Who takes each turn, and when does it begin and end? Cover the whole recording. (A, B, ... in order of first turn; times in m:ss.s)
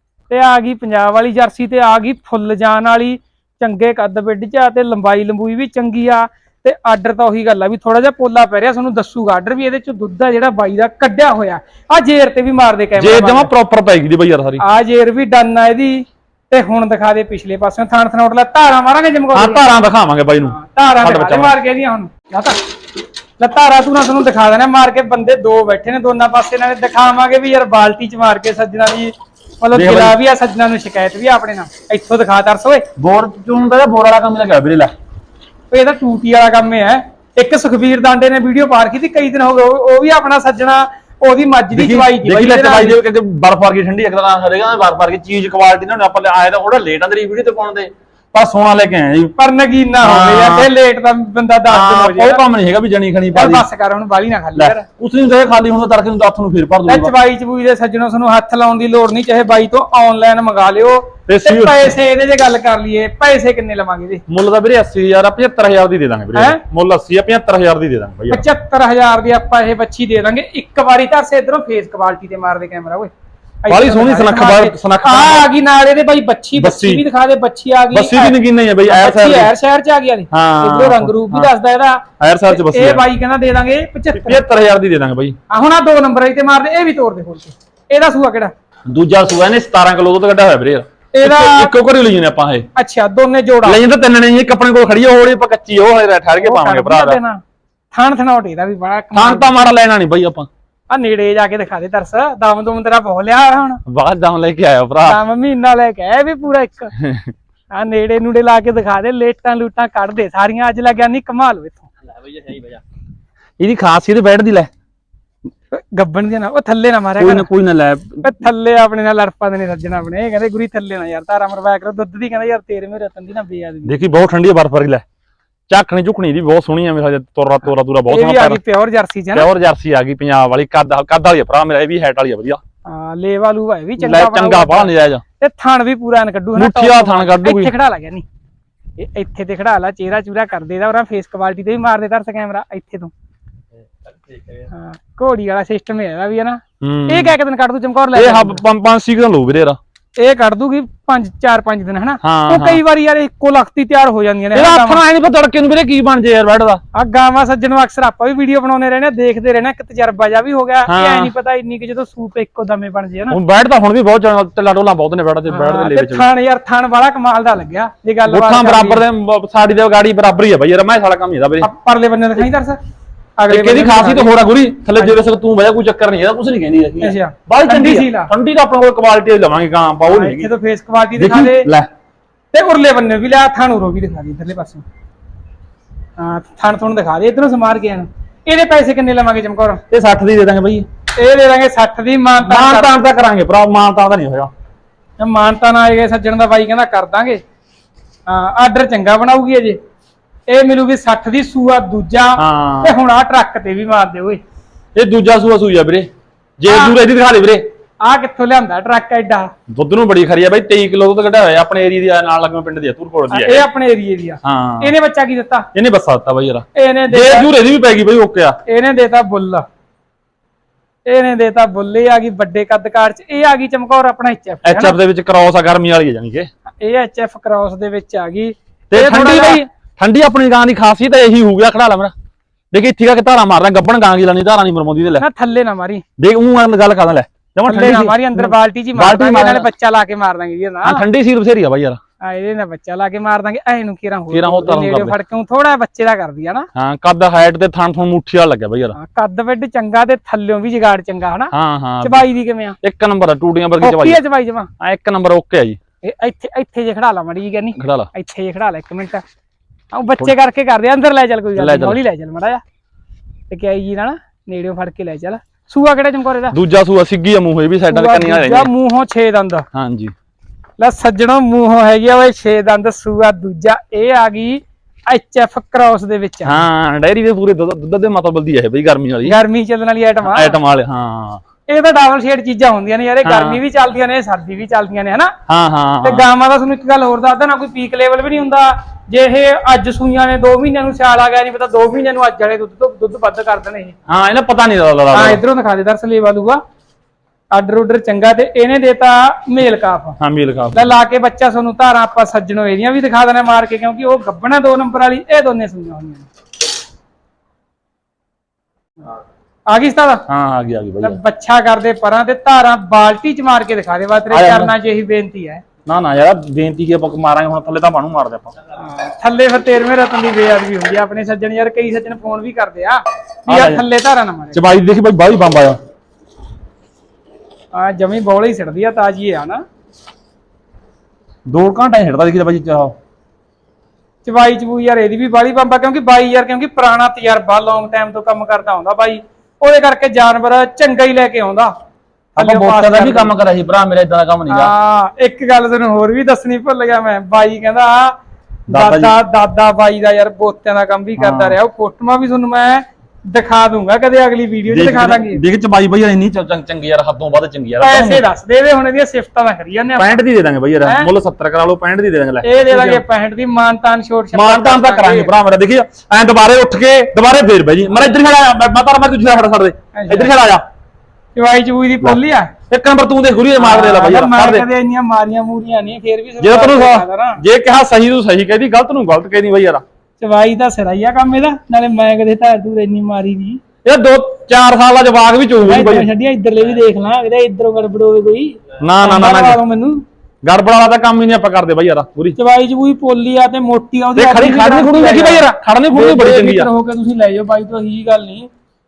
0:00.3-0:13.5 A
0:13.0-0:14.6 B
0:14.6-0:19.7 A
0:19.3-0:21.6 B
0:20.4-0:22.7 A
0:23.4-0:32.8 A
0:29.7-0:30.2 B
0:33.0-0:34.9 B
0:35.7-0:43.0 A
0:41.7-0:49.3 B
0:49.4-0:52.4 A
0:50.0-0:50.7 B
0:51.7-0:53.6 B
0:53.3-0:54.8 A
0:54.6-0:57.1 B
0:56.9-1:04.2 A
1:01.3-1:01.9 B
1:04.3-1:08.4 B
1:06.3-1:06.6 A
1:08.3-1:13.1 A
1:13.6-1:18.4 A
1:13.7-1:15.5 B
1:16.6-1:17.0 B
1:17.9-1:19.5 B
1:18.9-1:24.4 A
1:20.3-1:21.5 B
1:22.2-1:23.0 B
1:24.1-1:25.4 B
1:25.5-1:28.5 A
1:28.9-1:32.7 B
1:31.1-1:31.7 A
1:32.8-1:33.8 A
1:33.6-1:37.2 B
1:36.4-1:37.4 A
1:37.9-1:39.6 A
1:39.1-1:40.5 B
1:40.9-1:43.8 A
1:43.9-1:45.2 B
1:45.0-1:46.9 A
1:47.0-1:47.3 B
1:47.7-1:51.9 A
1:52.3-1:52.8 B
1:53.6-1:54.7 B
1:55.7-1:57.5 A
1:57.2-1:58.3 B
1:58.2-2:03.9 A
2:03.9-2:05.0 B
2:05.7-2:08.6 B
2:08.1-2:09.5 A
2:09.3-2:12.6 B
2:12.9-2:18.2 A
2:14.0-2:15.2 B
2:16.6-2:17.7 B
2:19.0-2:23.1 A
2:24.6-2:28.6 A
2:26.8-2:27.3 B
2:28.1-2:29.8 B
2:30.2-2:35.0 A
2:32.2-2:32.8 B
2:34.5-2:36.8 B
2:36.9-2:43.4 A
2:40.9-2:41.3 B
2:43.3-2:46.2 B
2:45.5-2:49.0 A
2:48.2-2:51.7 B
2:51.6-2:52.8 A
2:53.4-2:54.3 A
2:53.5-3:00.5 B
2:57.0-2:58.3 A
3:00.1-3:01.7 A
3:01.2-3:01.9 B
3:02.5-3:04.8 A
3:06.2-3:09.8 A
3:09.9-3:10.9 B
3:11.2-3:12.9 A
3:12.4-3:14.5 B
3:15.2-3:17.4 A
3:18.3-3:19.8 A
3:20.5-3:24.4 A
3:22.4-3:23.0 B
3:24.9-3:27.6 B
3:26.7-3:27.0 A
3:28.0-3:29.5 A
3:29.7-3:33.7 B
3:33.3-3:35.7 A
3:34.4-3:34.9 B
3:35.7-3:38.6 B
3:36.8-3:37.5 A
3:38.7-3:39.6 A
3:41.1-3:45.0 A
3:44.6-3:46.5 B
3:46.8-3:49.7 A
3:48.9-3:52.1 B
3:52.7-3:55.2 B
3:55.2-3:56.0 A
3:56.2-3:59.7 B
3:57.6-4:01.0 A
4:00.8-4:02.0 B
4:02.2-4:06.7 A
4:04.3-4:05.2 B
4:06.8-4:09.0 B
4:09.0-4:12.8 A
4:11.5-4:12.2 B
4:12.8-4:14.2 B
4:13.8-4:14.7 A
4:14.8-4:15.8 B
4:16.0-4:19.2 A
4:17.8-4:18.1 B
4:19.9-4:22.6 A
4:21.6-4:22.0 B
4:23.5-4:26.6 A
4:26.5-4:28.7 B
4:27.9-4:29.7 A
4:29.7-4:30.1 B
4:30.8-4:36.6 A
4:36.4-4:39.4 B
4:39.2-4:40.6 A
4:40.2-4:41.4 B
4:41.7-4:45.3 A
4:43.2-4:43.6 B
4:45.5-4:46.3 B
4:46.0-4:53.9 A
4:54.1-4:55.4 B
4:55.1-4:56.6 A
4:57.5-5:00.2 A
5:00.2-5:00.9 B
5:00.7-5:06.3 A
5:09.7-5:10.2 A
5:10.3-5:11.2 B
5:11.0-5:15.6 A
5:14.3-5:14.7 B
5:15.9-5:18.5 B
5:18.8-5:24.6 A
5:23.5-5:23.8 B
5:24.5-5:25.8 B
5:27.7-5:29.6 A
5:31.5-5:32.9 B
5:34.2-5:41.7 A
5:42.4-5:44.7 B
5:42.4-5:43.3 A
5:44.5-5:48.2 A
5:48.7-5:49.2 B
5:48.7-5:55.4 A
5:51.2-5:51.6 B
5:54.7-5:58.2 B
5:57.8-6:00.2 A
6:00.0-6:03.0 B
6:00.8-6:01.1 A
6:02.4-6:05.3 A
6:04.3-6:10.6 B
6:09.9-6:10.3 A
6:11.4-6:12.5 A
6:12.7-6:14.7 B
6:13.6-6:17.4 A
6:16.4-6:19.8 B
6:20.2-6:23.6 A
6:23.8-6:26.1 B
6:25.6-6:30.0 A
6:28.8-6:29.6 B
6:30.4-6:32.4 B
6:32.4-6:38.5 A
6:34.2-6:36.7 B